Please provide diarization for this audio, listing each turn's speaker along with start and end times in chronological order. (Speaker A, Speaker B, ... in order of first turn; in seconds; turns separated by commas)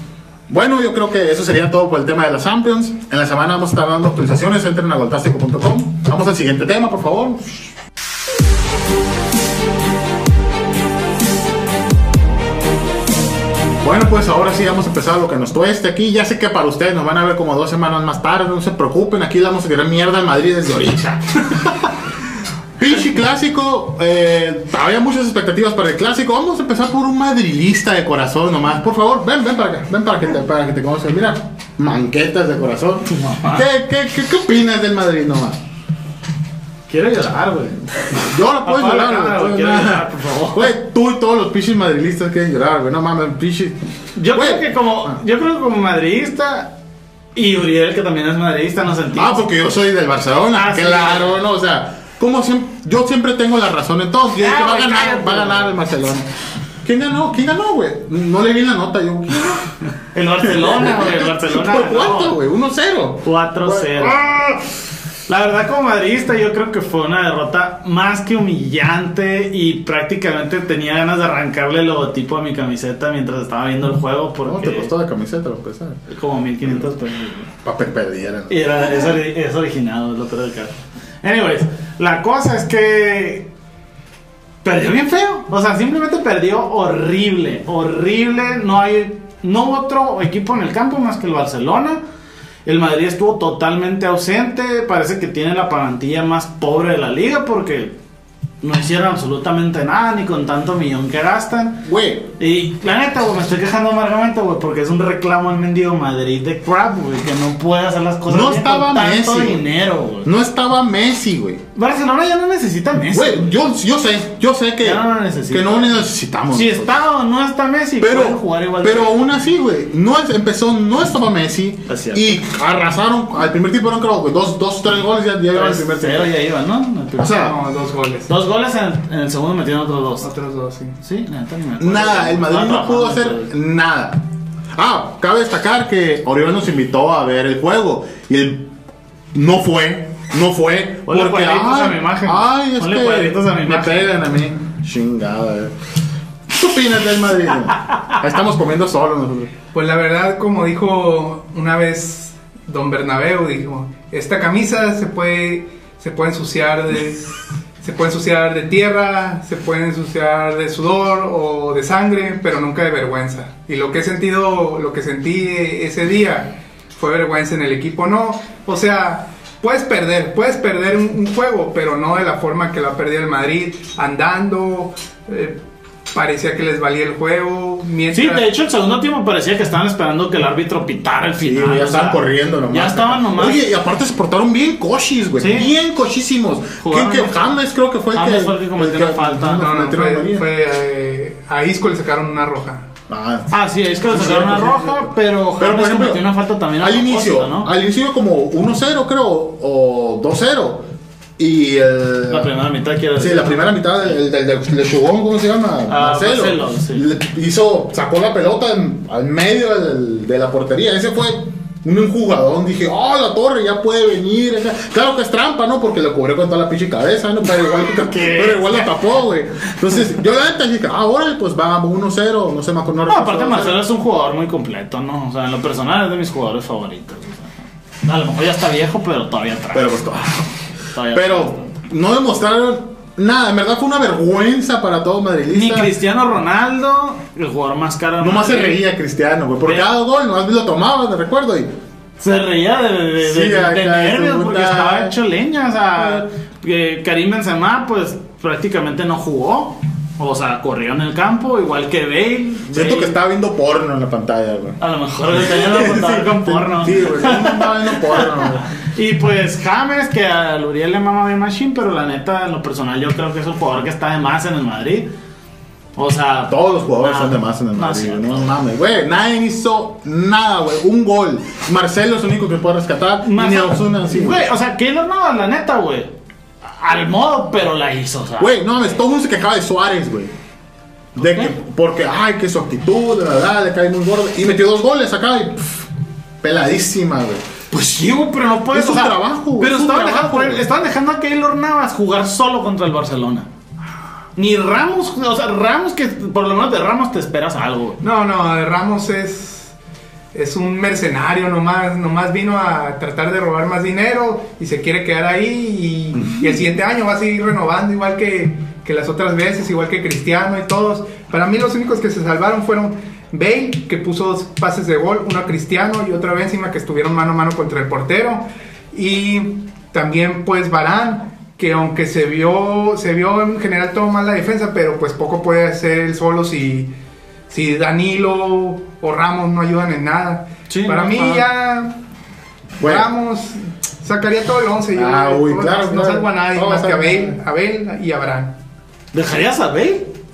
Speaker A: 0.5-7.7, Speaker A: 13.8-21.9, Speaker A: 22.8-35.6, Speaker B: 33.0-33.7, Speaker B: 36.9-40.7, Speaker A: 38.2-43.8, Speaker B: 44.1-46.7, Speaker A: 44.3-45.2, Speaker B: 47.4-49.4, Speaker A: 49.1-56.3, Speaker B: 50.5-51.4, Speaker B: 54.4-55.8, Speaker A: 56.8-59.7, Speaker B: 60.1-62.4, Speaker A: 60.4-64.6, Speaker B: 63.2-64.2, Speaker B: 65.3-74.9, Speaker A: 74.4-76.0, Speaker B: 76.1-77.5, Speaker A: 77.6-79.1, Speaker B: 78.5-83.5, Speaker B: 84.6-92.0, Speaker B: 92.7-98.0, Speaker B: 98.6-101.8, Speaker A: 101.8-102.3, Speaker B: 102.4-110.3, Speaker A: 108.3-109.7, Speaker A: 110.2-111.6, Speaker B: 111.8-113.5, Speaker A: 113.1-117.0, Speaker B: 114.8-116.0, Speaker B: 116.5-119.2, Speaker A: 118.0-126.3, Speaker B: 121.9-122.4, Speaker B: 125.5-127.4, Speaker A: 127.2-127.6, Speaker C: 127.3-128.3, Speaker B: 128.3-130.3, Speaker C: 130.2-131.0, Speaker B: 131.0-133.5, Speaker A: 131.8-134.2, Speaker A: 134.8-138.7, Speaker A: 139.3-145.7, Speaker B: 141.1-144.2, Speaker A: 146.5-149.5, Speaker C: 149.7-175.6, Speaker C: 176.1-178.5, Speaker B: 178.1-183.7, Speaker A: 181.4-190.5, Speaker B: 185.4-185.8, Speaker B: 186.8-187.6, Speaker B: 188.1-189.7, Speaker C: 189.5-192.9, Speaker A: 193.1-193.5, Speaker B: 193.5-197.7, Speaker A: 194.1-200.9, Speaker A: 201.4-202.5, Speaker B: 202.3-204.1, Speaker A: 203.2-223.8, Speaker B: 205.9-207.1, Speaker B: 217.4-219.1, Speaker B: 223.1-230.0, Speaker A: 229.7-230.5, Speaker B: 230.9-231.7, Speaker A: 231.1-235.9, Speaker B: 235.5-238.8, Speaker A: 238.2-241.7, Speaker B: 239.6-239.9, Speaker B: 242.2-253.2, Speaker A: 243.2-245.2, Speaker A: 246.0-246.2, Speaker A: 252.7-258.7, Speaker B: 254.8-265.1, Speaker B: 266.0-268.6, Speaker A: 266.5-274.5, Speaker B: 273.2-276.1, Speaker B: 276.7-278.6, Speaker A: 278.4-280.3, Speaker A: 281.1-285.9, Speaker B: 281.2-281.5, Speaker A: 286.4-287.4, Speaker B: 287.7-293.5, Speaker A: 288.7-290.7, Speaker B: 294.4-298.0, Speaker C: 298.0-299.7, Speaker C: 300.3-326.9, Speaker C: 327.5-332.0, Speaker B: 330.7-331.4, Speaker A: 332.8-333.1, Speaker C: 332.8-338.5, Speaker A: 334.9-337.4, Speaker B: 339.1-340.1